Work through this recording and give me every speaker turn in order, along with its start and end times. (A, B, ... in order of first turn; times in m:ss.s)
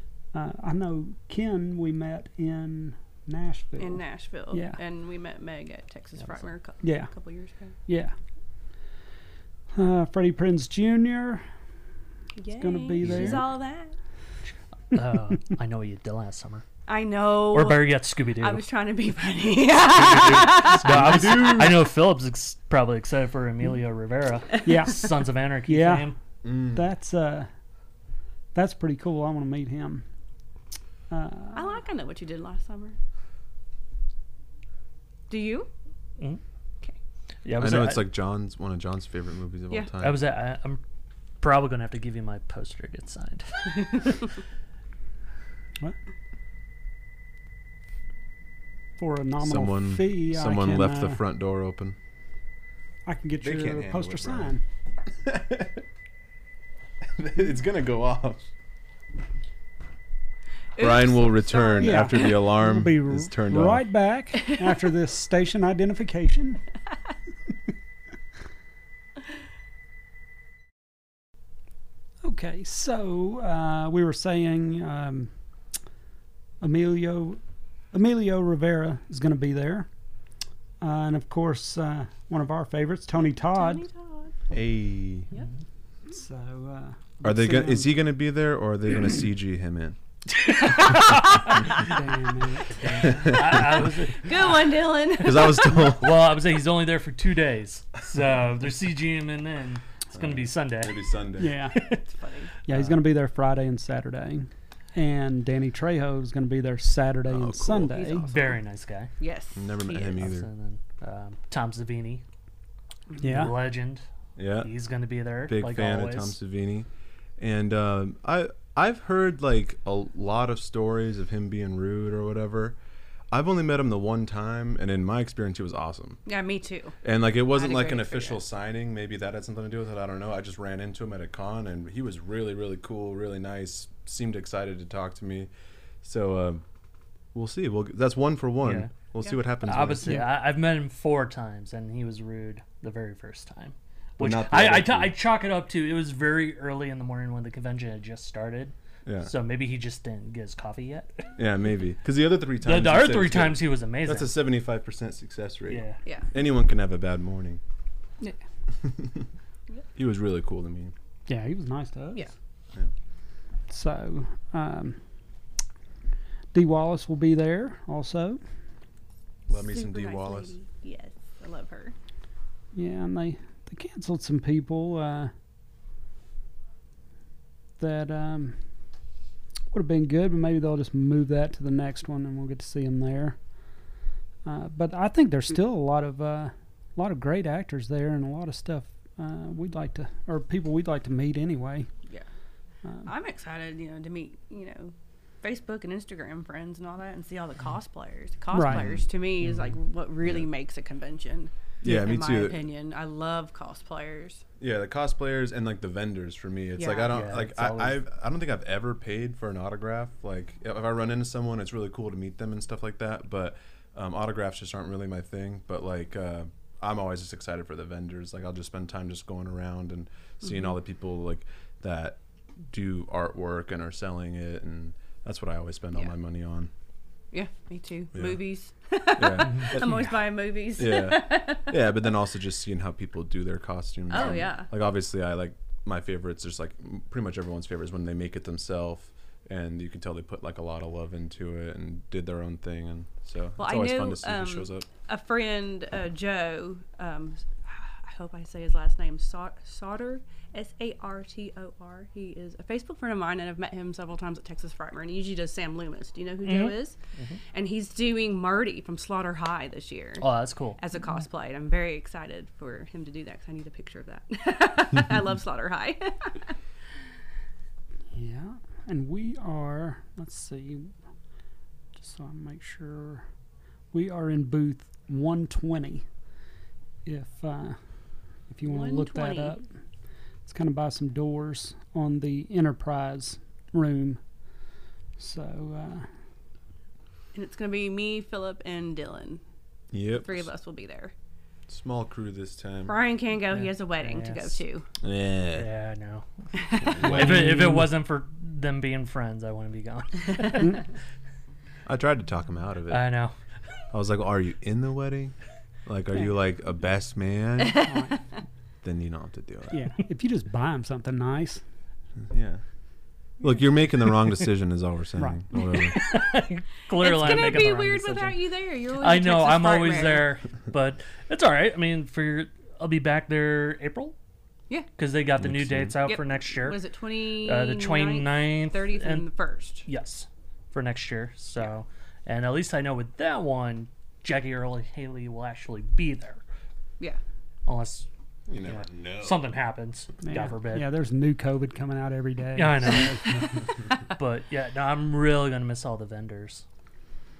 0:00.3-0:04.8 A
0:03.8-0:07.8 B
0:06.8-0:07.1 A
0:07.9-0:08.1 A
0:09.7-0:11.4 A
0:12.4-0:13.9 B
0:12.6-0:13.5 A
0:14.9-0:16.6 C
0:16.9-0:21.6 B
0:17.5-0:18.6 C
0:19.8-0:26.2 C
0:20.7-0:21.9 D
0:24.6-0:25.1 A
0:25.6-0:27.5 A
0:26.4-0:26.8 D
0:28.5-0:30.0 A
0:31.1-0:31.8 A
0:31.5-0:33.0 B
0:35.3-0:35.7 B
0:37.4-0:38.1 C
0:37.6-0:40.2 D
0:40.0-0:40.8 C
0:41.4-0:44.2 C
0:49.0-0:51.2 A
0:49.4-0:52.0 D
0:53.0-0:54.6 A
0:53.4-0:54.5 D
0:55.2-0:55.8 D
0:57.2-0:58.5 D
1:00.7-1:02.4 B
1:00.8-1:03.8 D
1:01.8-1:06.6 A
1:12.2-1:15.3 A
1:16.6-1:17.4 A
1:17.9-1:19.9 A
1:20.8-1:23.8 A
1:23.4-1:24.3 B
1:24.5-1:25.3 D
1:26.1-1:27.9 A
1:27.2-1:30.0 D
1:30.6-1:31.8 B
1:30.6-1:31.6 C
1:31.7-1:33.3 A
1:32.7-1:34.7 C
1:33.0-1:33.8 D
1:34.1-1:35.9 B
1:35.2-1:36.2 D
1:36.0-1:41.1 C
1:40.2-1:41.6 D
1:41.4-1:41.9 A
1:41.6-1:42.0 C
1:42.0-1:42.5 B
1:42.6-1:48.2 A
1:42.7-1:43.0 C
1:47.3-1:47.9 D
1:47.8-1:48.6 B
1:48.3-1:49.1 C
1:49.2-1:50.2 B
1:49.6-1:50.5 D
1:50.2-1:52.2 C
1:53.2-1:53.5 A
1:53.2-1:54.0 C
1:54.4-1:54.7 D
1:54.6-1:56.4 C
1:55.5-1:56.9 D
1:57.4-2:02.8 D
2:03.3-2:06.2 D
2:06.2-2:07.0 B
2:07.0-2:15.5 D
2:07.5-2:08.4 B
2:16.0-2:16.6 D
2:17.3-2:20.2 D
2:18.6-2:18.9 C
2:19.6-2:31.3 C
2:24.2-2:25.1 D
2:29.0-2:29.3 D
2:31.4-2:37.6 D
2:32.6-2:34.3 C
2:35.7-2:36.0 C
2:38.8-2:39.2 D
2:40.0-2:40.9 D
2:41.3-2:42.3 A
2:43.7-2:45.0 A
2:46.5-2:48.4 A
2:49.5-2:50.5 D
2:49.5-2:51.9 B
2:52.7-2:55.3 A
2:57.8-2:58.6 A
2:59.7-3:03.4 A
3:04.4-3:11.9 A
3:13.0-3:24.4 B
3:18.5-3:18.8 A
3:18.7-3:19.0 D
3:21.8-3:22.6 D
3:24.6-3:46.7 D
3:26.8-3:27.2 B
3:27.1-3:28.0 C
3:47.3-3:52.0 B
3:49.2-3:50.2 D
3:50.8-4:04.8 D
3:54.1-3:54.7 B
4:03.6-4:17.0 B
4:16.4-4:17.4 C
4:17.5-4:20.2 B
4:20.2-4:20.8 C
4:20.8-4:26.6 B
4:28.1-4:30.9 A
4:32.0-4:33.2 A
4:33.9-4:36.0 A
4:37.0-4:37.8 A
4:38.5-4:39.6 A
4:38.6-4:39.6 B
4:40.4-4:44.2 A
4:45.2-4:46.1 A
4:47.3-4:49.4 B
4:49.9-4:50.5 D
4:50.2-4:51.1 B
4:51.7-4:53.0 D
4:52.8-4:54.9 B
4:53.5-4:54.6 C
4:55.0-4:55.7 D
4:55.5-5:00.8 C
4:56.6-4:57.0 B
4:56.9-4:57.4 D
4:57.0-4:57.9 A
5:01.8-5:03.1 D
5:02.9-5:03.3 C
5:03.9-5:08.1 D
5:07.8-5:08.2 A
5:08.8-5:09.8 D
5:09.7-5:11.6 A
5:12.3-5:12.6 D
5:13.4-5:16.0 D
5:15.6-5:18.4 C
5:16.9-5:20.4 B
5:19.0-5:24.1 C
5:25.0-5:26.8 C
5:25.4-5:26.0 D
5:26.0-5:29.8 B
5:27.4-5:29.3 C
5:29.8-5:36.4 C
5:37.6-5:38.1 C
5:38.5-5:39.4 D
5:38.6-5:40.9 C
5:40.2-5:43.2 A
5:42.6-5:46.6 C